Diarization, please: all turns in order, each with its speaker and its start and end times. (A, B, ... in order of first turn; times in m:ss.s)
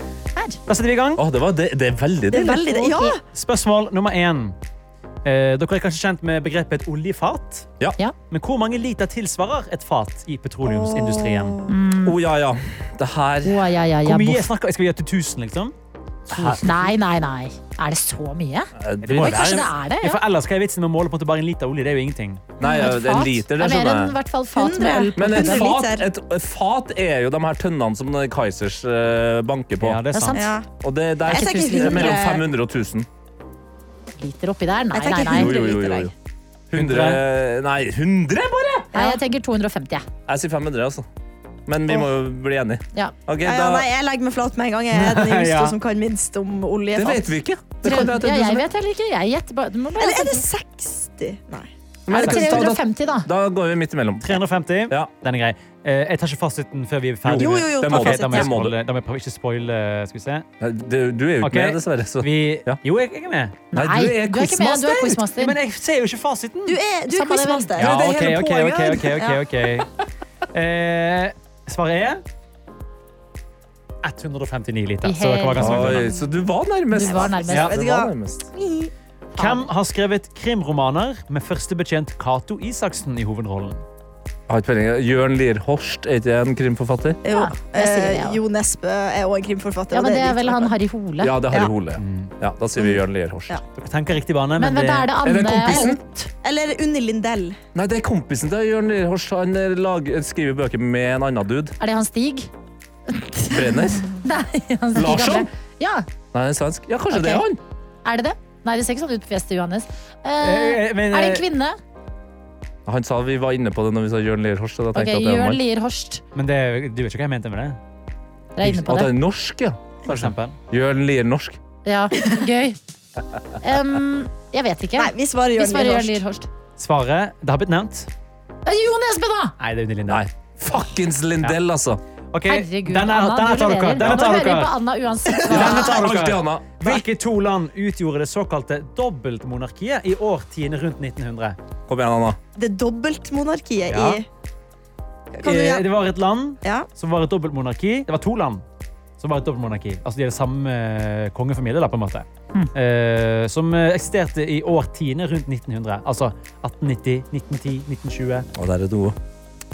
0:00.7-0:01.2 A
0:01.2-0:03.0 B
0:02.3-0:03.2 C
0:02.8-0:03.1 D
0:03.3-0:04.6 A
0:05.2-0:07.7 A
0:08.3-0:11.6 A
0:10.6-0:11.8 C
0:11.7-0:12.2 D
0:12.0-0:13.7 B
0:13.4-0:14.5 D
0:14.0-0:15.8 A
0:16.3-0:16.8 B
0:16.3-0:20.2 D
0:18.8-0:19.7 B
0:19.0-0:22.4 A
0:22.6-0:24.2 B
0:22.6-0:25.8 D
0:24.5-0:26.1 C
0:25.2-0:30.0 B
0:29.8-0:30.4 A
0:30.1-0:30.6 D
0:30.4-0:30.7 C
0:30.8-0:33.1 B
0:31.2-0:32.4 C
0:31.3-0:32.4 D
0:34.2-0:35.8 D
0:34.9-0:36.1 C
0:35.2-0:36.1 B
0:36.7-0:38.9 B
0:36.7-0:37.2 A
0:38.9-0:40.1 D
0:40.3-0:41.1 B
0:41.7-0:43.9 B
0:43.4-0:47.3 C
0:44.9-0:45.8 A
0:46.9-0:48.7 B
0:47.8-0:50.5 D
0:50.0-0:51.7 C
0:52.1-0:55.1 B
0:52.1-0:53.3 D
0:52.3-0:52.6 C
0:54.2-1:00.4 A
0:57.2-0:58.8 B
0:57.4-0:58.3 C
0:58.1-0:58.5 D
1:00.6-1:02.8 B
1:01.4-1:03.6 A
1:03.7-1:05.6 D
1:03.7-1:05.2 B
1:05.4-1:06.8 A
1:06.7-1:09.4 C
1:07.1-1:07.8 D
1:07.8-1:08.8 B
1:07.8-1:09.9 A
1:10.5-1:12.2 A
1:14.0-1:16.1 A
1:15.0-1:16.0 D
1:15.6-1:18.5 B
1:16.9-1:17.7 D
1:17.1-1:18.9 C
1:17.5-1:17.8 A
1:19.4-1:19.7 D
1:19.4-1:23.8 A
1:24.5-1:27.2 B
1:27.2-1:30.7 C
1:27.3-1:28.4 D
1:29.9-1:31.3 D
1:31.2-1:33.6 B
1:32.0-1:32.3 A
1:32.8-1:33.6 C
1:33.8-1:35.1 A
1:34.6-1:36.3 D
1:35.2-1:36.0 B
1:35.7-1:37.6 C
1:37.7-1:41.8 B
1:41.8-1:42.5 D
1:43.1-1:46.1 D
1:43.5-1:44.2 B
1:45.0-1:45.5 B
1:46.3-1:47.6 B
1:47.1-1:47.5 D
1:48.0-1:51.8 D
1:50.4-1:51.4 A
1:52.9-1:55.6 B
1:54.9-1:56.2 D
1:56.4-1:57.8 A
1:58.6-1:59.1 D
1:58.6-2:01.6 B
2:00.1-2:00.6 A
2:01.8-2:02.8 D
2:03.6-2:06.5 D
2:05.0-2:06.2 C
2:06.8-2:08.1 A
2:08.7-2:09.6 D
2:09.6-2:10.2 A
2:10.1-2:12.0 B
2:12.3-2:14.8 A
2:12.5-2:15.9 D
2:15.4-2:15.8 C
2:15.5-2:21.6 A
2:15.5-2:17.0 B
2:21.9-2:22.4 B
2:22.6-2:24.3 C
2:23.9-2:24.2 A
2:25.3-2:25.9 C
2:25.4-2:28.6 A
2:29.2-2:38.5 A
2:38.6-2:39.2 B